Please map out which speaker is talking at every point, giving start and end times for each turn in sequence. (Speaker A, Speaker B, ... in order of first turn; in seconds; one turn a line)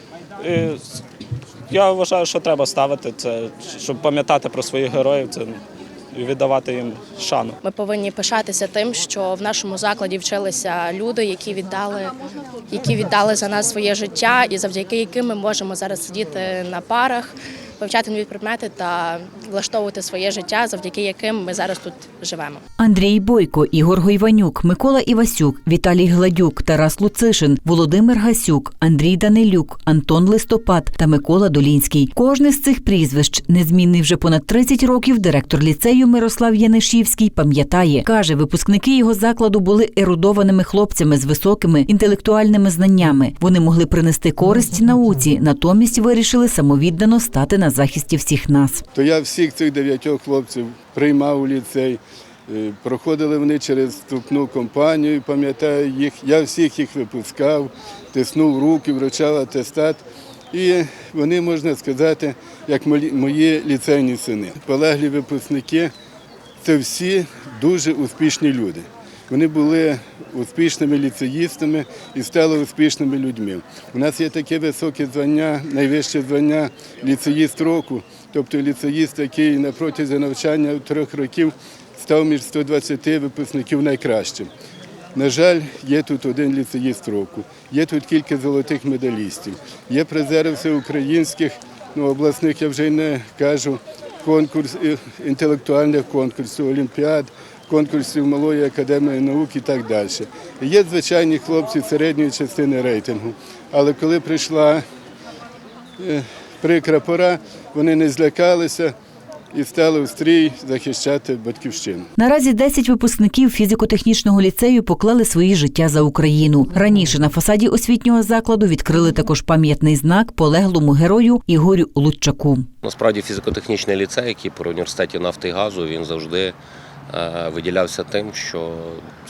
Speaker A: 0.4-1.0
Speaker A: 1.7-5.6
Speaker A: 6.1-7.6
Speaker B: 7.6-12.2
Speaker B: 12.7-22.6
Speaker C: 22.8-48.8
Speaker D: 48.9-65.9
Speaker D: 66.6-84.5
Speaker D: 85.2-104.8
Speaker D: 106.0-108.9
Speaker D: 109.5-112.1
Speaker C: 112.2-122.7
Speaker E: 122.8-126.6
Speaker E: 127.1-129.0